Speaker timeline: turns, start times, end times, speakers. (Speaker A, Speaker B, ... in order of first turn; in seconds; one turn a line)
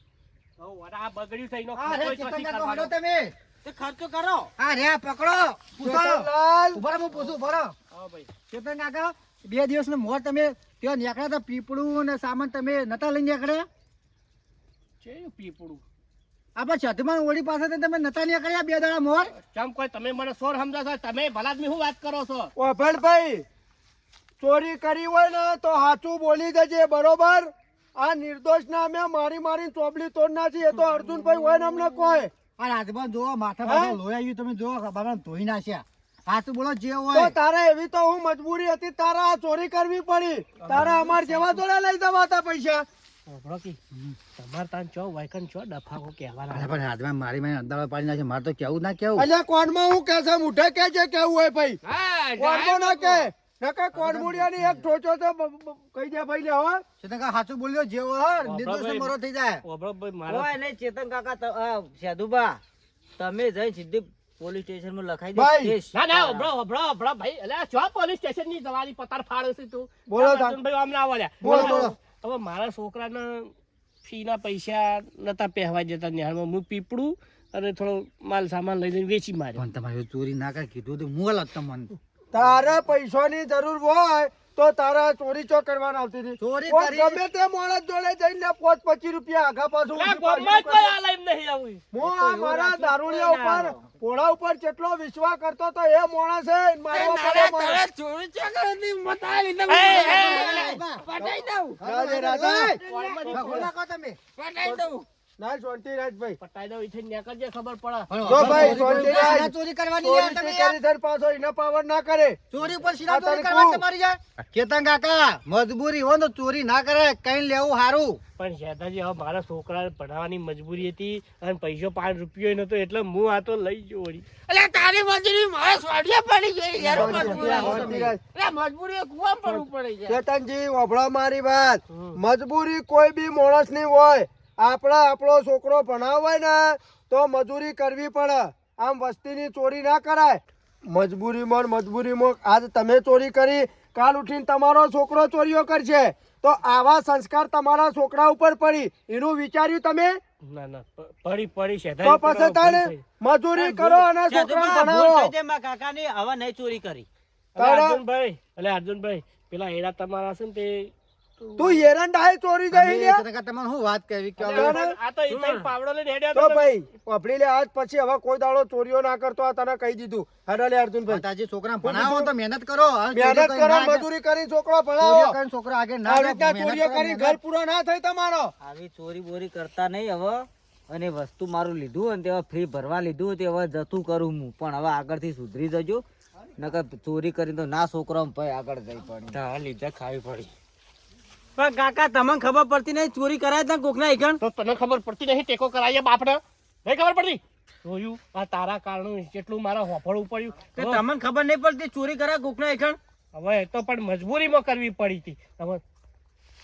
Speaker A: 0.6-2.9
Speaker B: 1.8-3.3
Speaker C: 3.6-4.5
Speaker B: 4.6-7.8
Speaker D: 5.8-6.8
Speaker A: 7.1-8.3
Speaker B: 8.5-13.7
Speaker A: 15.0-15.8
Speaker B: 16.6-19.3
Speaker A: 19.3-22.5
Speaker D: 22.6-23.4
Speaker D: 24.4-32.3
Speaker B: 32.6-37.3
Speaker D: 33.6-34.0
Speaker D: 37.1-42.9
Speaker A: 40.6-41.6
Speaker A: 43.3-43.8
Speaker A: 44.4-46.8
Speaker B: 46.5-49.3
Speaker D: 49.1-51.8
Speaker E: 51.8-53.3
Speaker D: 52.4-56.8
Speaker B: 53.9-54.8
Speaker B: 57.0-59.6
Speaker A: 58.4-60.5
Speaker C: 60.3-62.6
Speaker C: 63.2-66.5
Speaker D: 65.3-65.7
Speaker A: 65.9-73.5
Speaker D: 70.1-70.6
Speaker D: 71.4-71.9
Speaker B: 71.4-71.9
Speaker A: 74.0-79.6
Speaker B: 79.5-81.9
Speaker D: 82.3-90.9
Speaker B: 86.4-87.2
Speaker A: 89.9-91.8
Speaker D: 91.9-97.8
Speaker C: 92.0-93.8
Speaker A: 92.6-93.4
Speaker E: 96.9-101.8
Speaker A: 99.7-100.7
Speaker B: 99.8-101.0
Speaker D: 101.2-102.8
Speaker B: 101.8-104.2
Speaker A: 102.8-103.7
Speaker D: 103.3-103.6
Speaker E: 104.4-105.0
Speaker D: 105.4-106.4
Speaker A: 106.4-109.1
Speaker B: 108.1-110.8
Speaker D: 108.2-112.4
Speaker B: 112.5-118.2
Speaker D: 113.1-113.8
Speaker A: 118.4-124.3
Speaker E: 124.5-130.2
Speaker B: 126.8-128.1
Speaker D: 126.9-128.2
Speaker A: 127.0-127.8
Speaker D: 129.4-150.2
Speaker A: 131.9-132.2
Speaker A: 150.5-153.0
Speaker D: 152.0-155.3
Speaker C: 153.6-157.1
Speaker D: 157.6-158.0
Speaker A: 157.6-161.8
Speaker D: 161.6-163.2
Speaker B: 162.7-164.8
Speaker A: 164.4-166.7
Speaker D: 164.5-164.9
Speaker E: 165.3-165.7
Speaker D: 166.3-171.2
Speaker B: 171.1-174.0
Speaker D: 171.8-172.3
Speaker D: 173.1-175.4
Speaker B: 175.0-177.4
Speaker D: 176.0-178.5
Speaker C: 178.6-186.0
Speaker C: 186.6-189.4
Speaker E: 189.3-190.5
Speaker C: 191.6-194.4
Speaker A: 194.4-201.0
Speaker C: 200.7-203.0
Speaker A: 203.3-205.8